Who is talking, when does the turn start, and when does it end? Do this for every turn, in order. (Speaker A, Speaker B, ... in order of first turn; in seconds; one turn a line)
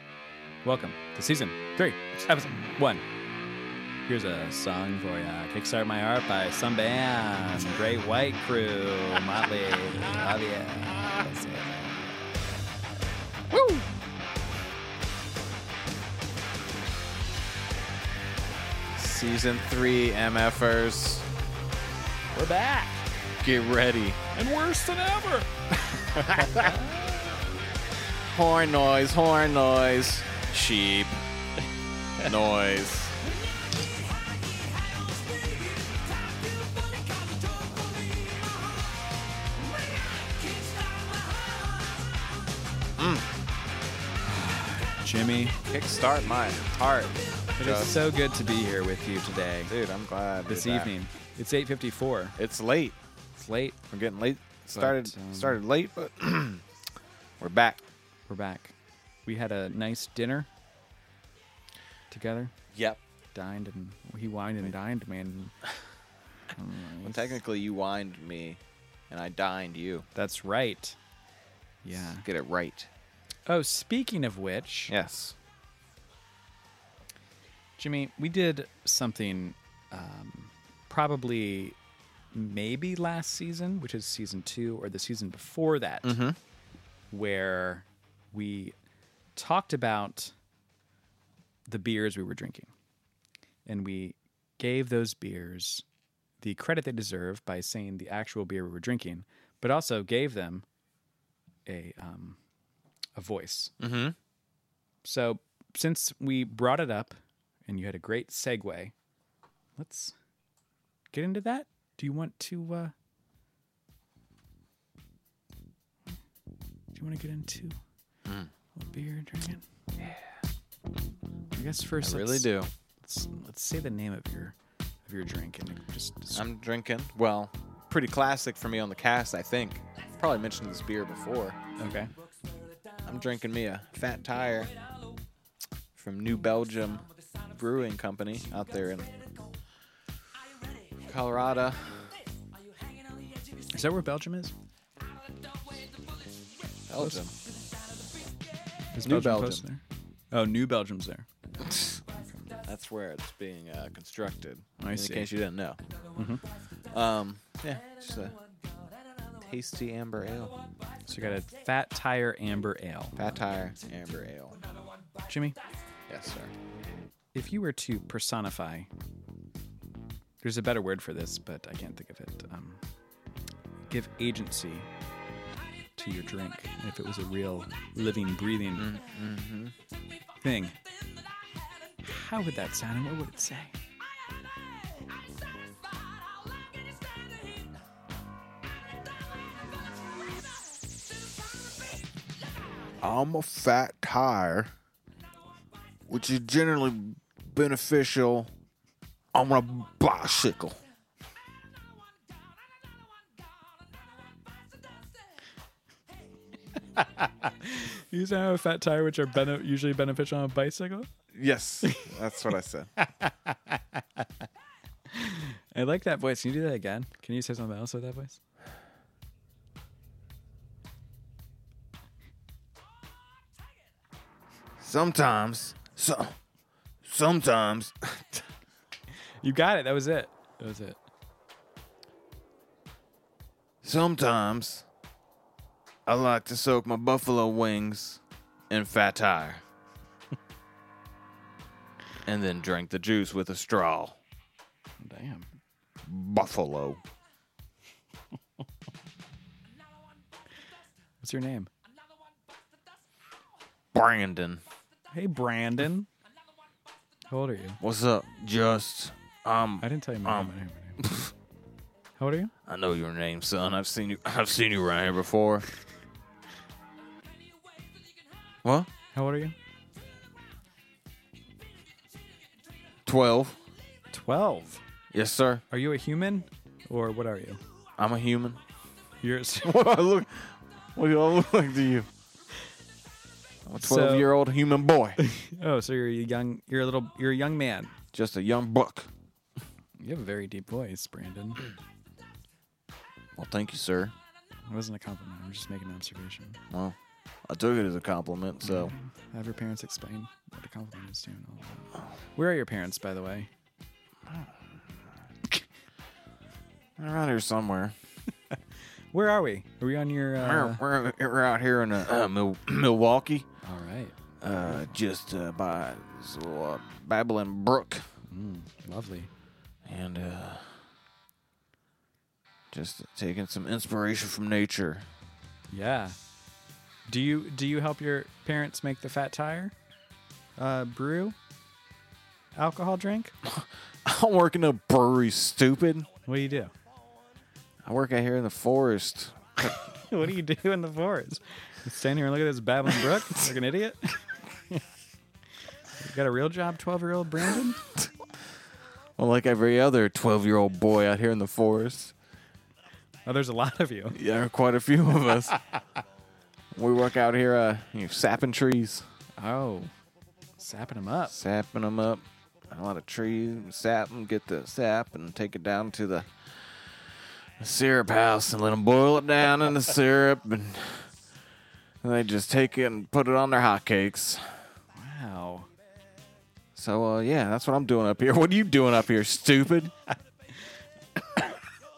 Speaker A: 0.6-3.0
Speaker A: 4.1-12.1
Speaker B: 13.5-13.8
Speaker B: 18.9-21.3
Speaker A: 22.3-23.1
Speaker B: 23.4-24.2
Speaker A: 24.3-27.3
Speaker B: 26.1-26.7
Speaker B: 28.2-31.2
Speaker B: 32.2-33.1
Speaker B: 43.0-43.3
Speaker A: 44.2-45.6
Speaker B: 45.7-48.0
Speaker A: 47.6-49.7
Speaker B: 49.6-50.9
Speaker A: 50.5-52.4
Speaker B: 52.4-53.0
Speaker A: 53.4-53.8
Speaker B: 53.9-56.6
Speaker A: 54.8-55.6
Speaker B: 57.4-57.8
Speaker A: 58.3-58.7
Speaker A: 59.3-60.5
Speaker A: 62.1-62.5
Speaker B: 62.7-63.0
Speaker A: 63.3-65.5
Speaker A: 66.5-67.4
Speaker B: 67.0-70.1
Speaker A: 70.2-71.0
Speaker A: 71.8-72.3
Speaker B: 71.9-72.9
Speaker A: 73.5-74.9
Speaker B: 74.9-75.4
Speaker A: 77.8-81.8
Speaker A: 82.3-86.2
Speaker B: 86.0-86.4
Speaker A: 87.1-88.8
Speaker A: 89.4-90.3
Speaker A: 91.7-92.7
Speaker A: 93.7-95.8
Speaker A: 96.4-100.7
Speaker A: 101.7-102.4
Speaker A: 103.2-103.7
Speaker B: 103.8-104.2
Speaker A: 105.0-108.9
Speaker A: 109.8-110.2
Speaker A: 111.1-112.9
Speaker A: 116.9-117.8
Speaker B: 118.3-118.5
Speaker A: 118.8-119.6
Speaker A: 121.5-124.5
Speaker B: 122.0-122.7
Speaker A: 125.1-126.5
Speaker B: 126.3-131.6
Speaker A: 131.8-132.1
Speaker B: 133.0-134.7
Speaker B: 136.0-139.3
Speaker B: 141.0-142.2
Speaker A: 143.7-144.5
Speaker B: 146.9-147.3
Speaker A: 147.0-147.3
Speaker A: 148.9-151.3
Speaker B: 149.0-149.7
Speaker B: 151.6-152.0
Speaker A: 152.2-152.5
Speaker B: 152.6-155.8
Speaker A: 154.8-155.3
Speaker A: 156.2-156.4
Speaker B: 156.9-158.4
Speaker B: 159.3-160.6
Speaker A: 161.1-163.3
Speaker B: 163.2-164.6
Speaker A: 165.3-165.6
Speaker B: 166.1-166.5
Speaker A: 167.3-168.9
Speaker A: 170.4-172.8
Speaker A: 173.9-174.9
Speaker A: 176.0-179.0
Speaker B: 178.7-179.8
Speaker A: 180.4-180.8
Speaker A: 182.0-183.8
Speaker B: 193.0-194.7
Speaker B: 196.1-198.5
Speaker B: 199.3-200.8
Speaker A: 206.9-211.1
Speaker B: 211.3-212.9
Speaker A: 213.0-214.0
Speaker A: 215.1-218.4
Speaker B: 224.8-226.4
Speaker B: 227.0-228.5
Speaker A: 229.4-231.0
Speaker B: 233.8-234.9
Speaker B: 236.1-239.6
Speaker B: 242.2-244.2
Speaker A: 245.0-245.5
Speaker B: 246.1-247.0
Speaker A: 251.2-251.7
Speaker B: 253.9-254.6
Speaker A: 255.1-256.1
Speaker A: 257.3-257.8
Speaker B: 257.8-261.3
Speaker A: 259.8-261.1
Speaker A: 262.2-262.5
Speaker B: 262.6-265.7
Speaker B: 268.6-268.9
Speaker A: 269.1-269.6
Speaker B: 273.1-273.6
Speaker A: 274.1-274.8
Speaker B: 275.1-275.6
Speaker A: 275.7-277.6
Speaker B: 278.0-278.6
Speaker A: 279.2-279.8
Speaker B: 279.6-282.1
Speaker B: 283.7-285.2
Speaker A: 283.8-284.3
Speaker A: 285.2-287.9
Speaker B: 288.1-289.1
Speaker A: 290.0-291.7
Speaker B: 293.4-294.1
Speaker A: 294.7-296.6
Speaker B: 296.7-298.9
Speaker A: 298.6-303.5
Speaker B: 307.0-307.9
Speaker A: 309.1-310.8
Speaker B: 310.4-313.5
Speaker A: 313.6-314.1
Speaker B: 314.4-318.1
Speaker A: 314.7-314.9
Speaker A: 318.3-319.3
Speaker B: 319.9-320.9
Speaker B: 322.7-325.1
Speaker A: 325.7-326.2
Speaker A: 327.1-329.8
Speaker A: 330.6-331.4
Speaker A: 332.6-333.4
Speaker B: 333.4-336.1
Speaker A: 336.3-336.7
Speaker B: 337.9-339.8
Speaker A: 339.8-344.8
Speaker A: 346.0-347.8
Speaker B: 349.2-352.1
Speaker A: 353.3-354.2
Speaker B: 354.1-355.6
Speaker B: 356.8-359.1
Speaker A: 359.4-359.9
Speaker A: 360.6-361.4
Speaker B: 361.3-367.1
Speaker B: 367.6-371.1
Speaker B: 372.0-374.6
Speaker A: 374.9-375.7
Speaker B: 376.8-379.9